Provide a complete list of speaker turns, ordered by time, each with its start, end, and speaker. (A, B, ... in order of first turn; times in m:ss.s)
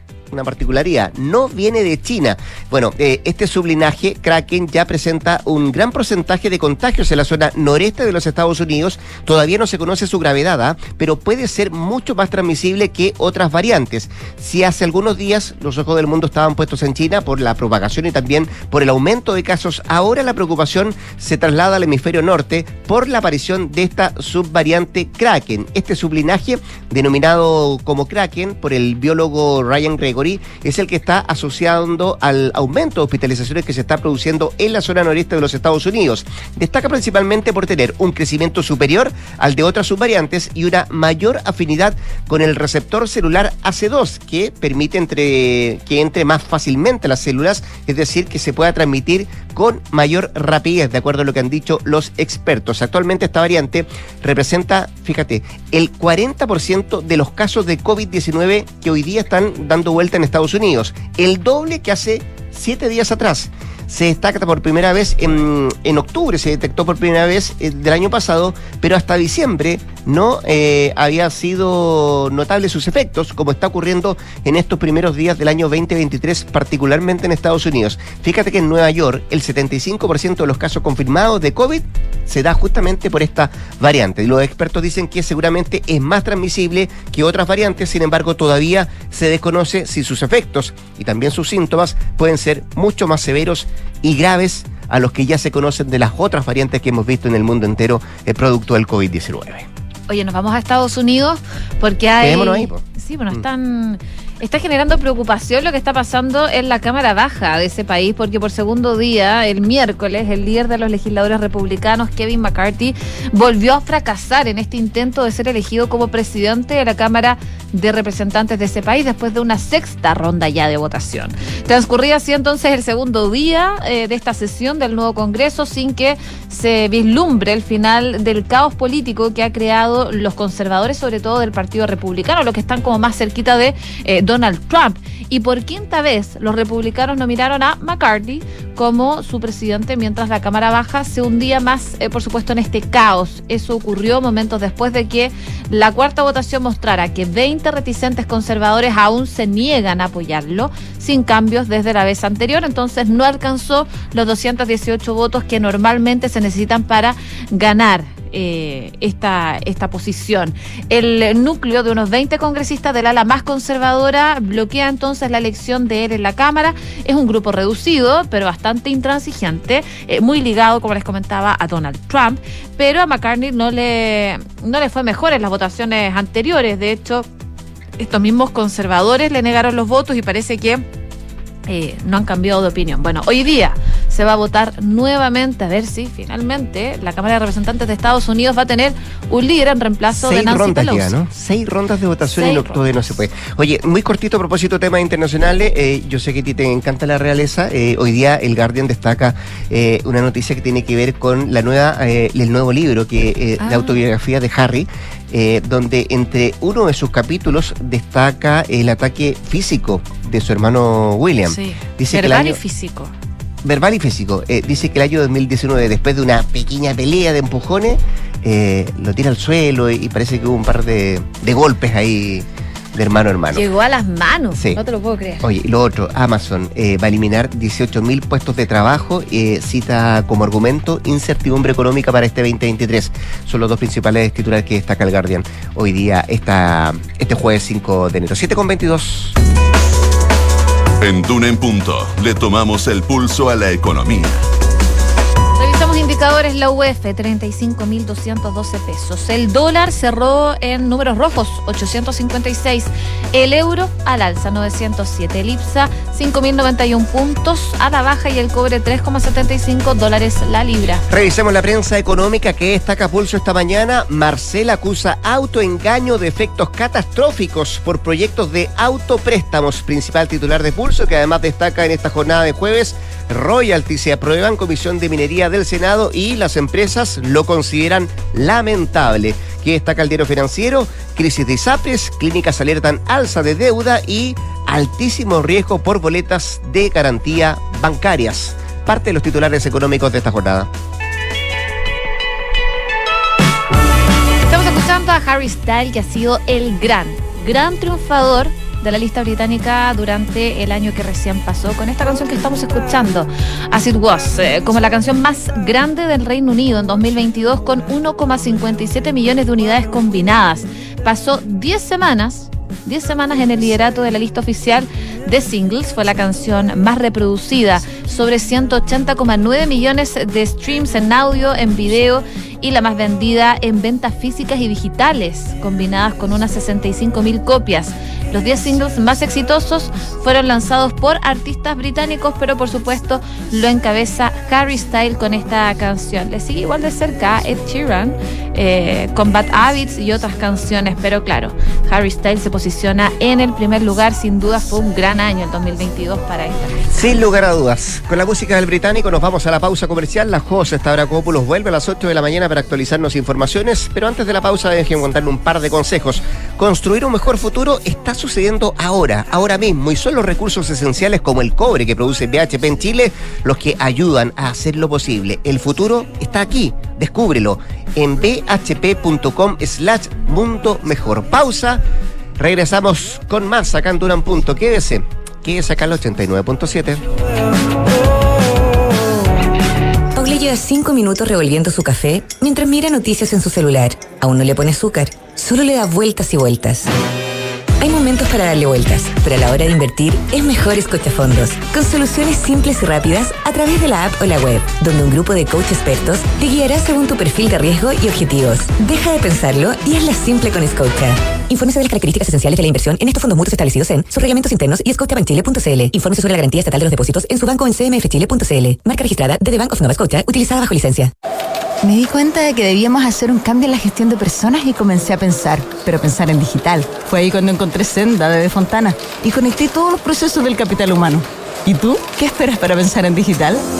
0:00.3-1:39.7 A
1:40.1-2:57.3 B
1:42.2-1:43.4 A
2:58.0-3:00.8 B
3:01.7-3:11.1 B
3:10.2-3:32.6 A
3:12.3-3:12.9 B
3:23.6-3:23.9 B
3:31.5-3:33.0 B
3:32.1-3:32.4 C
3:33.6-3:43.7 A
3:43.5-3:45.4 B
3:44.5-3:44.8 A
3:45.4-3:59.4 A
4:01.0-4:04.4 D
4:05.6-4:21.0 B
4:21.1-4:50.7 A
4:54.5-5:46.9 B
5:46.9-6:11.8 A
6:12.4-6:17.0 A
6:20.1-6:26.9 E
6:27.8-6:51.1 E
6:51.8-7:03.6 C